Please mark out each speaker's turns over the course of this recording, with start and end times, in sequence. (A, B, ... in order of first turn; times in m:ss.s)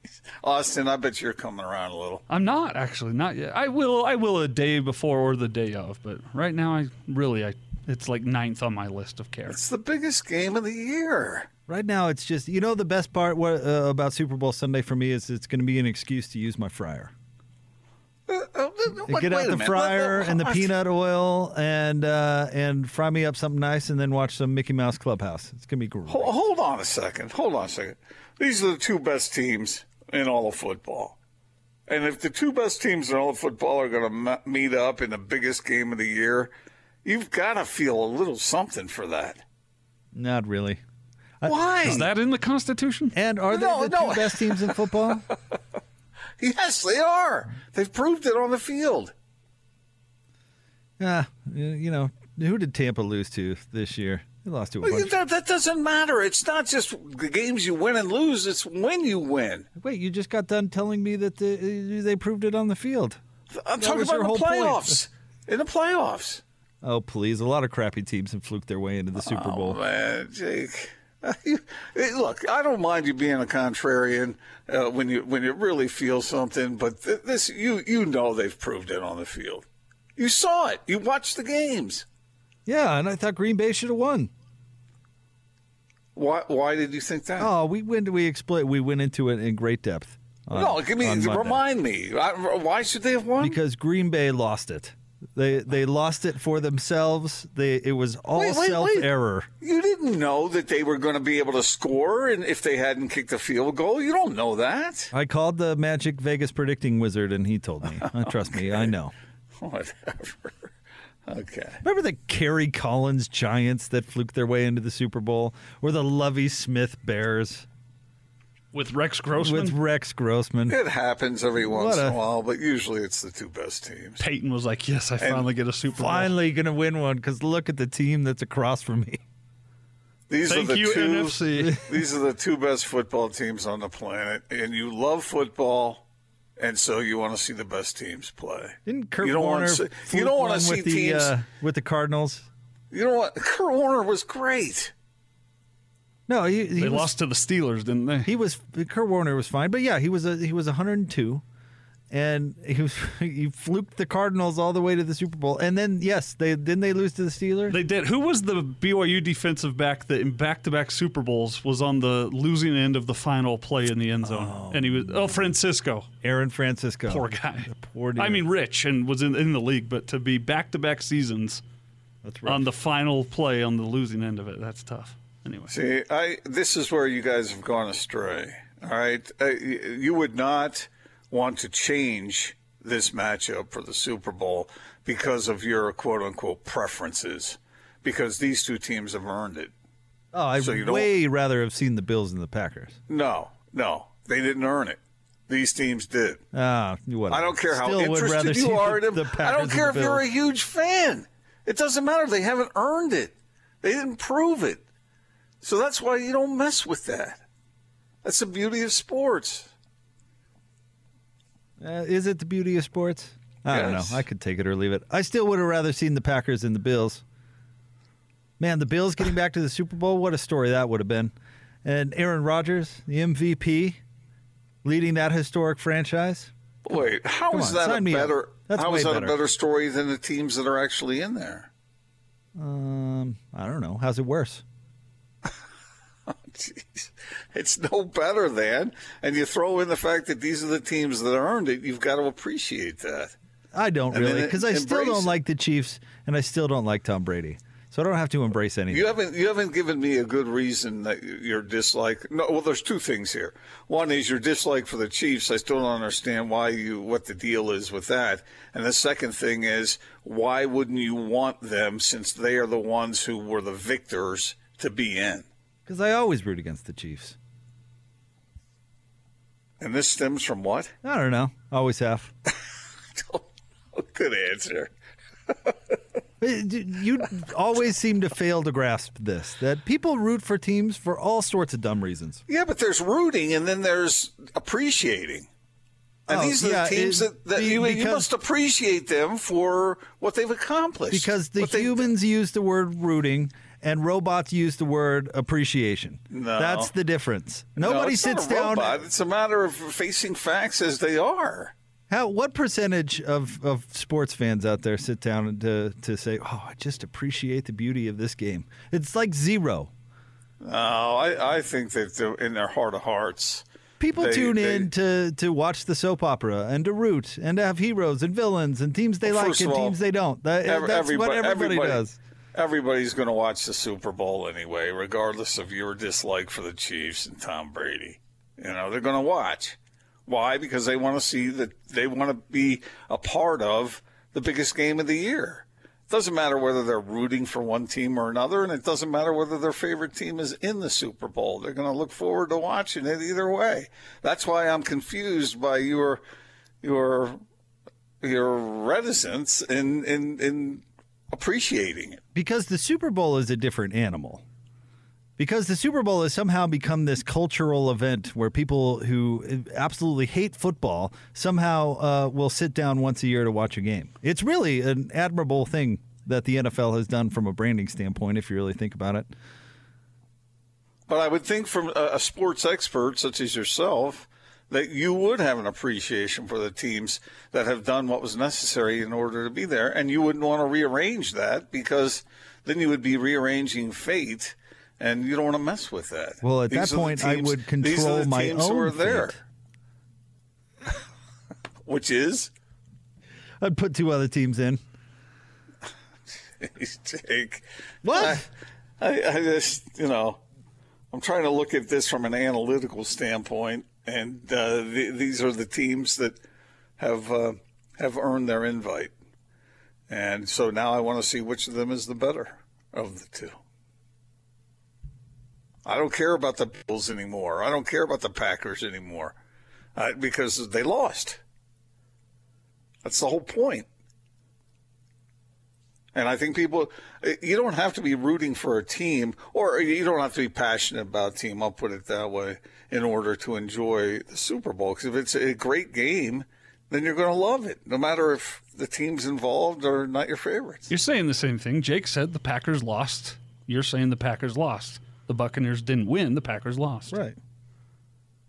0:00.4-0:02.2 A
0:02.3-0:09.6 B
0:09.5-0:11.5 A
0:11.7-0:17.1 C
0:18.3-0:20.7 A
0:19.0-0:26.3 C
0:26.1-0:31.2 A
0:31.9-0:36.5 A
0:37.0-0:39.4 A
0:40.1-0:40.8 C
0:41.4-0:42.0 C
0:41.4-0:42.0 A
0:41.8-0:43.1 B
0:43.1-0:45.2 C
0:43.5-0:44.8 A
0:46.4-0:49.1 A
0:51.0-0:55.1 C
0:54.8-0:59.7 A
0:59.8-1:03.2 C
1:03.5-1:06.4 A
1:03.8-1:05.0 C
1:06.8-1:09.8 C
1:09.2-1:22.0 A
1:22.6-1:24.3 C
1:26.1-1:27.5 A
1:27.4-1:31.6 C
1:30.5-1:33.6 A
1:33.4-1:39.5 C
1:38.3-1:45.1 A
1:45.1-1:49.1 C
1:49.6-1:50.7 A
1:51.3-1:51.8 A
1:51.8-1:57.7 C
1:58.7-1:59.8 B
1:59.4-2:00.8 C
2:00.7-2:04.2 A
2:01.7-2:02.2 C
2:04.2-2:06.3 B
2:05.2-2:05.5 A
2:05.9-2:09.2 C
2:10.3-2:16.0 A
2:10.5-2:11.8 B
2:11.5-2:11.8 C
2:16.6-2:21.3 A
2:18.8-2:22.5 C
2:22.9-2:24.9 A
2:26.3-2:27.1 C
2:26.8-2:28.3 B
2:28.2-2:31.4 C
2:32.1-2:37.8 C
2:37.7-2:46.1 B
2:44.2-2:45.4 C
2:46.2-2:48.4 C
2:47.1-2:51.6 B
2:52.2-2:52.6 C
2:52.4-2:55.7 B
2:55.7-3:09.7 A
3:10.3-3:13.0 C
3:10.6-3:11.1 A
3:13.1-3:16.4 A
3:16.5-3:20.2 C
3:17.3-3:24.8 A
3:25.6-3:27.4 A
3:28.2-3:29.7 A
3:31.8-3:37.2 C
3:33.7-3:34.2 A
3:38.6-3:41.3 C
3:41.8-3:44.0 C
3:44.8-3:47.0 C
3:46.8-3:51.7 A
3:47.5-3:49.4 C
3:52.6-3:54.6 C
3:56.3-4:03.4 A
4:03.7-4:09.1 C
4:04.1-4:05.4 A
4:08.9-4:25.5 A
4:25.8-4:27.4 C
4:29.8-4:30.9 A
4:31.0-4:32.3 C
4:33.1-4:34.9 A
4:35.5-4:35.7 A
4:36.4-4:42.4 C
4:42.5-4:45.5 A
4:46.3-4:48.3 C
4:46.3-4:52.0 A
4:51.1-4:59.0 C
4:56.3-4:56.9 A
4:57.8-5:01.7 A
5:02.1-5:09.9 C
5:10.6-5:13.6 A
5:14.0-5:22.2 C
5:14.1-5:14.9 A
5:19.2-5:20.0 A
5:20.6-5:22.0 A
5:22.5-5:46.2 A
5:46.8-5:47.4 A
5:48.2-5:52.2 A
5:52.3-5:54.4 C
5:55.4-6:09.3 C
6:11.1-6:29.4 A
6:26.4-6:29.4 C
6:31.8-6:32.5 A
6:33.6-6:34.8 C
6:36.6-6:38.5 A
6:38.0-6:38.4 C
6:39.0-6:40.4 A
6:41.1-6:46.4 A
6:47.0-6:49.1 A
6:50.1-6:53.6 A
6:55.8-6:59.4 A
7:00.0-7:01.4 A
7:03.0-7:03.8 A
7:06.1-7:20.9 A
7:20.9-7:27.2 B
7:27.1-7:27.4 C